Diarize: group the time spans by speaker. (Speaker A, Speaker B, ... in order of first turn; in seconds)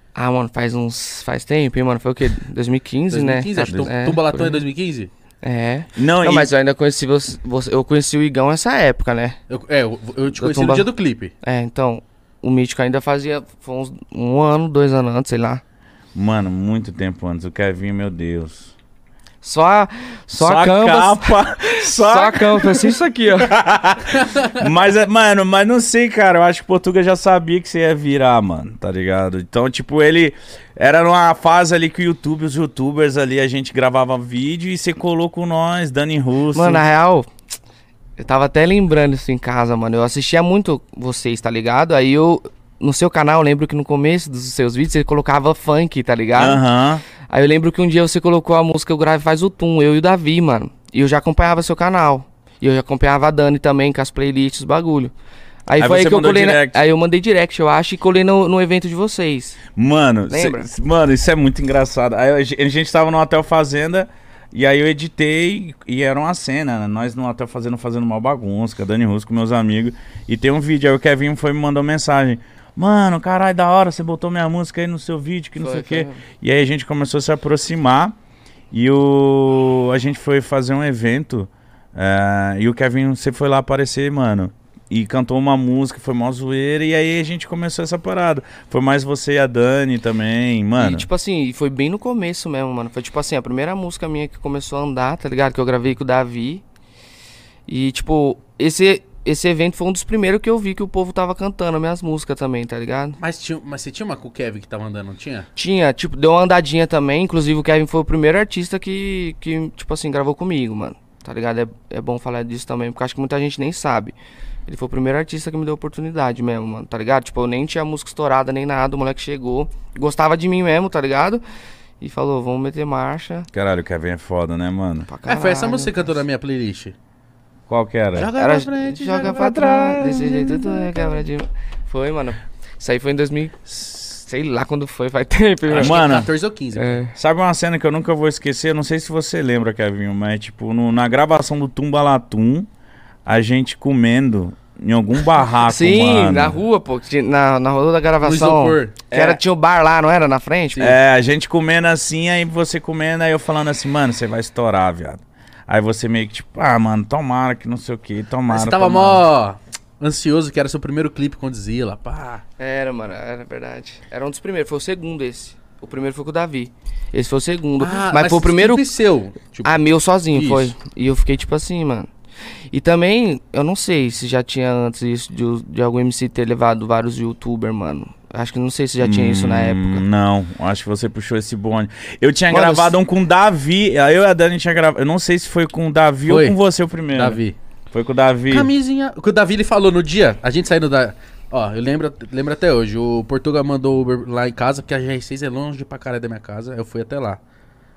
Speaker A: 0.1-4.6, 5.4-9.4, 10.3-10.9, 11.4-15.6, 19.4-23.6, 36.5-37.3, 38.2-46.6, 47.3-55.1, 55.7-59.6, 60.3-60.7, 75.6-76.2, 90.8-96.6, 97.7-103.2, 105.5-114.1, 114.7-121.4, 122.0-123.5, 125.1-126.2, 128.3-137.1, 145.5-150.9, 162.6-168.9, 169.6-172.1, 172.7-180.0, 182.5-182.9
Speaker B: 3.1-5.1, 9.5-11.3, 103.2-105.5, 125.2-127.0, 128.1-129.6, 135.7-137.0, 148.2-149.0, 158.5-162.4, 167.8-170.7, 186.3-186.6, 187.1-187.6, 188.5-197.4
Speaker C: 3.7-3.9, 5.9-6.5, 16.1-18.7, 20.3-36.8, 46.3-47.0, 55.8-56.8, 59.7-78.1, 78.7-91.0, 123.5-125.1, 127.7-128.3, 129.3-131.2, 135.7-136.3, 137.1-142.7, 143.2-146.6, 149.1-149.4, 150.8-159.2, 179.0-188.7